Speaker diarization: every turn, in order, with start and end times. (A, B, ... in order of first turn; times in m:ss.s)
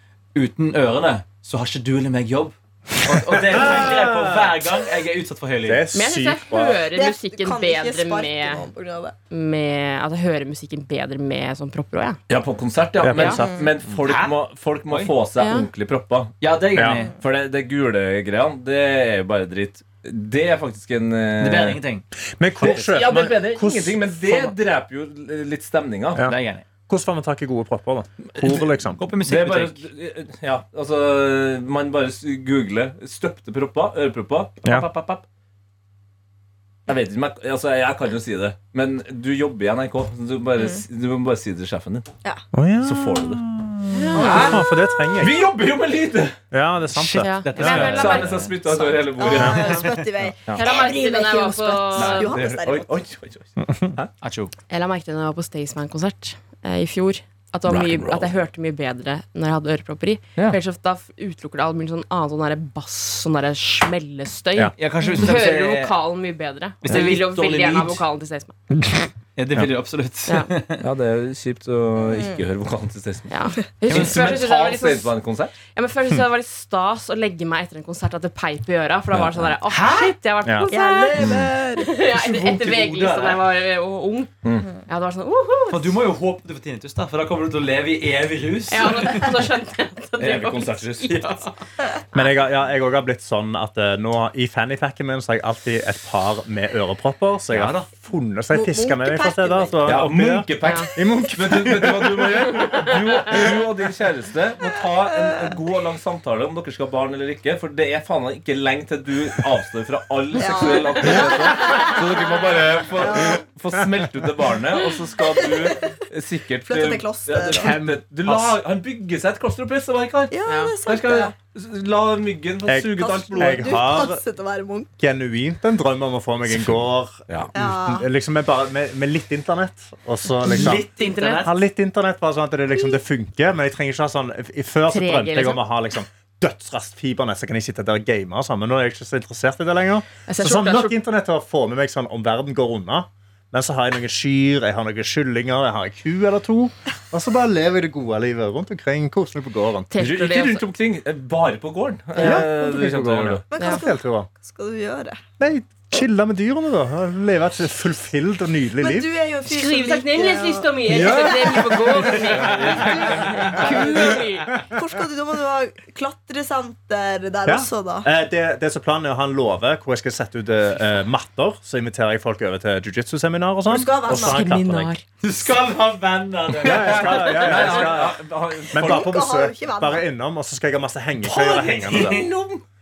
0:00.3-0:05.8 A
0:03.1-0:04.7 B
0:05.6-0:06.8 B
0:05.9-0:08.6 C
0:06.9-0:09.2 D
0:09.3-0:12.2 C
0:12.3-0:16.4 E
0:13.0-0:13.7 B
0:13.2-0:13.4 C
0:14.0-0:14.4 A
0:14.9-0:15.1 A
0:15.4-0:15.7 C
0:16.4-0:17.2 A
0:16.7-0:17.0 B
0:17.2-0:21.8 E
0:21.4-0:22.0 A
0:22.4-0:24.1 B
0:22.6-0:23.3 A
0:22.6-0:26.2 E
0:26.2-0:26.6 A
0:26.9-0:29.0 B
0:28.4-0:29.9 A
0:29.2-0:35.2 E
0:34.7-0:35.2 A
0:36.9-0:42.1 E
0:42.5-0:45.4 B
0:42.8-0:43.4 E
0:43.9-0:44.6 C
0:44.1-0:45.0 D
0:44.2-0:44.6 E
0:45.2-0:46.4 E
0:46.5-0:47.9 B
0:46.9-0:50.0 A
0:47.2-0:48.4 C
0:47.6-0:49.8 E
0:49.1-0:53.0 D
0:49.4-0:49.6 B
0:50.5-0:52.4 C
0:51.9-0:54.1 E
0:53.7-0:53.9 B
0:54.2-0:54.5 A
0:54.7-1:08.5 C
0:57.7-0:58.3 E
1:04.8-1:06.0 A
1:06.8-1:08.0 A
1:08.8-1:09.7 B
1:09.4-1:10.8 A
1:10.8-1:13.3 E
1:12.0-1:12.4 D
1:13.3-1:15.1 C
1:13.9-1:15.6 E
1:13.9-1:14.4 A
1:15.7-1:21.2 C
1:19.1-1:19.6 E
1:19.7-1:20.2 A
1:20.4-1:20.7 B
1:20.7-1:21.9 D
1:21.2-1:21.5 E
1:21.8-1:24.3 C
1:22.0-1:23.4 A
1:24.8-1:26.0 C
1:25.7-1:29.5 A
1:28.7-1:31.5 C
1:30.2-1:31.2 E
1:32.1-1:42.7 B
1:37.5-1:37.9 A
1:38.5-1:39.9 D
1:39.8-2:00.3 E
1:40.6-1:40.9 C
1:50.4-1:52.4 D
1:53.0-1:53.4 D
1:55.3-1:55.9 D
1:56.7-1:57.8 D
1:57.5-1:58.5 B
2:00.3-2:01.3 D
2:00.5-2:00.7 C
2:00.8-2:03.9 E
2:02.7-2:04.2 B
2:03.0-2:04.9 D
2:05.0-2:10.9 B
2:06.5-2:07.5 E
2:07.5-2:08.0 D
2:10.4-2:11.5 A
2:10.8-2:11.5 C
2:11.4-2:29.9 B
2:14.9-2:15.6 C
2:20.3-2:21.0 C
2:29.9-2:30.6 C
2:30.0-2:33.4 E
2:32.2-2:32.4 C
2:32.2-2:34.3 B
2:33.5-2:35.2 D
2:33.6-2:33.8 C
2:35.4-2:39.1 B
2:38.8-2:41.8 D
2:39.5-2:44.6 C
2:40.9-2:42.8 B
2:42.4-2:43.9 E
2:42.5-2:42.9 A
2:44.7-2:48.1 D
2:47.4-2:54.9 B
2:53.7-2:54.4 D
2:54.1-2:55.0 C
2:55.2-2:58.0 A
2:56.6-2:58.2 B
2:56.6-2:59.1 E
2:58.7-3:02.2 B
2:58.7-3:00.0 D
3:01.2-3:02.6 E
3:01.8-3:02.3 A